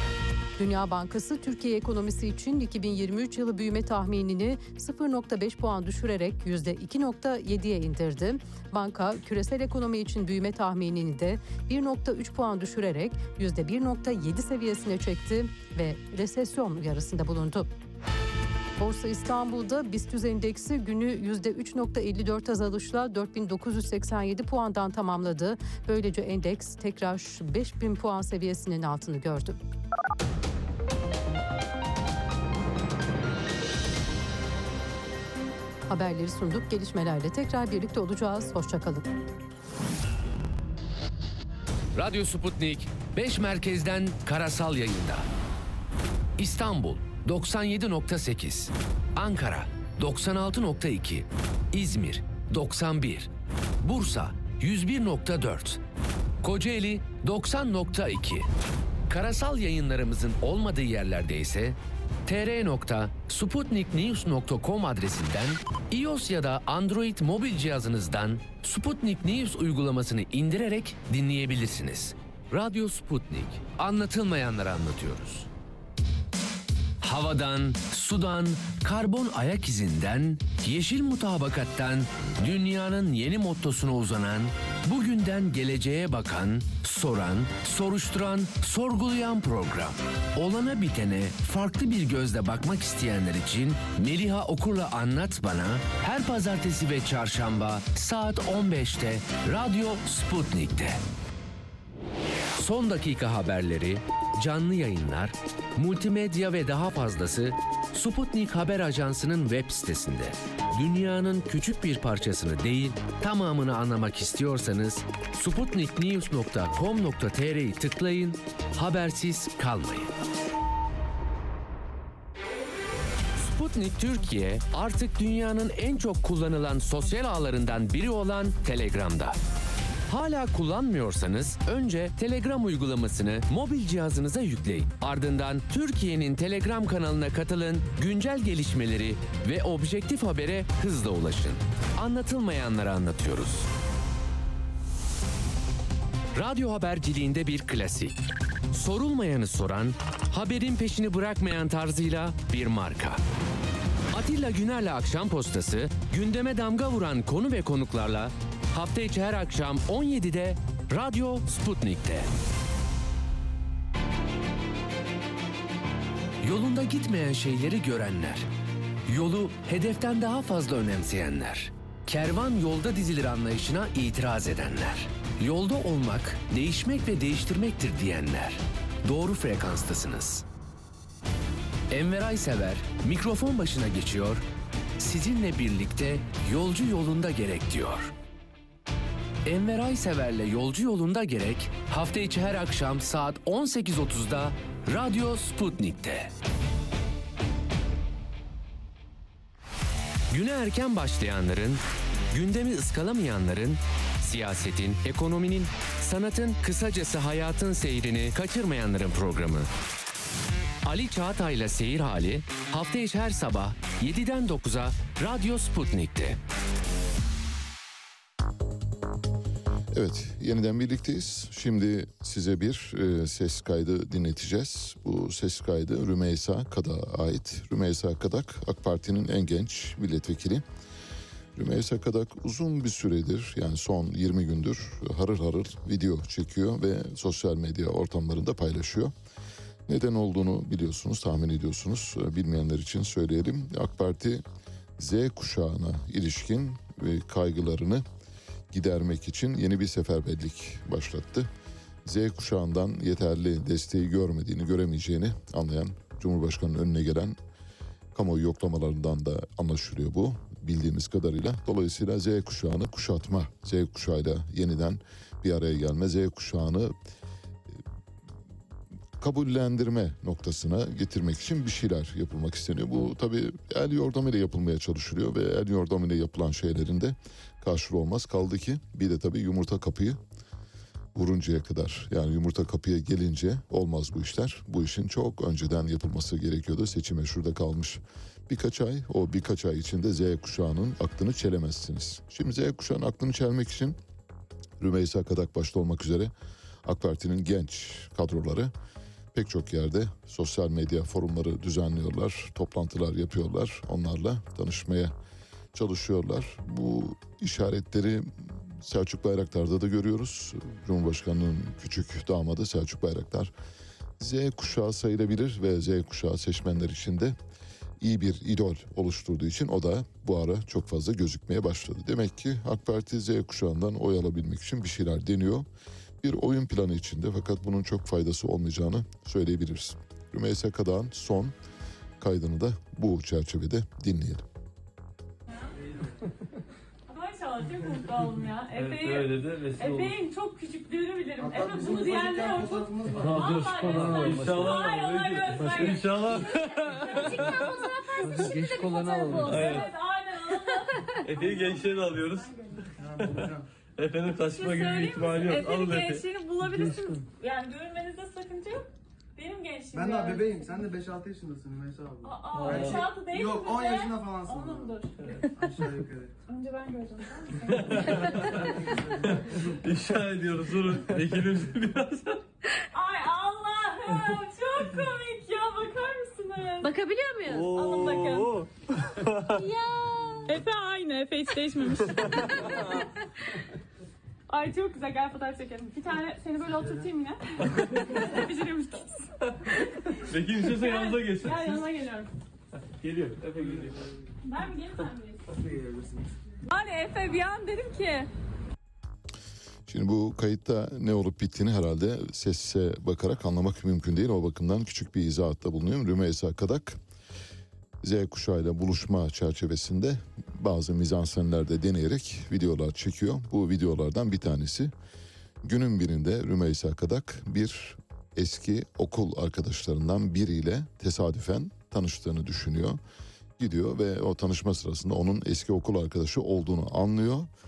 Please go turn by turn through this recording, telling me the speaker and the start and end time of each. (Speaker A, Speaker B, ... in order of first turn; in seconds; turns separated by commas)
Speaker A: 0.6-17.7, Speaker A: 18.8-29.6, Speaker A: 35.9-39.0, Speaker B: 41.9-45.2, Speaker B: 46.4-53.3, Speaker B: 53.8-55.8, Speaker B: 56.4-58.5, Speaker B: 59.1-75.5, Speaker B: 77.0-101.0, Speaker B: 102.6-120.1, Speaker B: 123.4-129.4, Speaker B: 130.1-143.7, Speaker B: 146.3-148.2, Speaker B: 148.7-153.2, Speaker B: 154.1-162.3, Speaker B: 166.4-168.5, Speaker B: 169.1-180.4, Speaker B: 181.9-184.4, Speaker B: 185.0-188.1, Speaker B: 189.4-196.3, Speaker B: 200.3-209.7, Speaker B: 210.8-216.4, Speaker C: 219.9-230.6, Speaker C: 231.5-239.1, Speaker C: 239.9-244.4, Speaker C: 245.0-248.0, Speaker C: 248.7-251.5, Speaker C: 252.0-257.4, Speaker C: 258.1-266.9, Speaker C: 269.2-280.2, Speaker C: 281.1-294.0, Speaker C: 294.8-296.3, Speaker C: 296.8-298.7, Speaker C: 299.3-305.1, Speaker C: 305.7-313.5, Speaker C: 314.2-317.4, Speaker C: 318.0-325.7, Speaker C: 326.2-331.5, Speaker C: 332.2-334.4, Speaker D: 337.1-353.2, Speaker E: 338.7-340.2, Speaker F: 341.4-344.8, Speaker E: 343.1-349.9, Speaker F: 348.6-349.7, Speaker E: 351.2-352.5, Speaker F: 353.0-353.7, Speaker E: 353.1-357.2, Speaker D: 354.5-360.8, Speaker F: 359.9-366.3, Speaker D: 362.2-365.6, Speaker E: 362.5-363.1, Speaker D: 366.5-369.3, Speaker E: 367.7-368.7, Speaker F: 368.9-369.3, Speaker E: 369.2-372.4, Speaker D: 372.9-378.6, Speaker E: 377.4-379.7, Speaker D: 379.5-383.1, Speaker E: 382.0-382.4, Speaker D: 384.5-392.3, Speaker E: 387.7-388.4, Speaker E: 390.3-391.9, Speaker E: 393.0-394.1, Speaker D: 394.4-395.5, Speaker F: 395.5-396.5, Speaker D: 396.6-398.3, Speaker C: 399.9-407.0, Speaker C: 408.0-414.9, Speaker C: 415.6-423.0, Speaker C: 423.6-427.5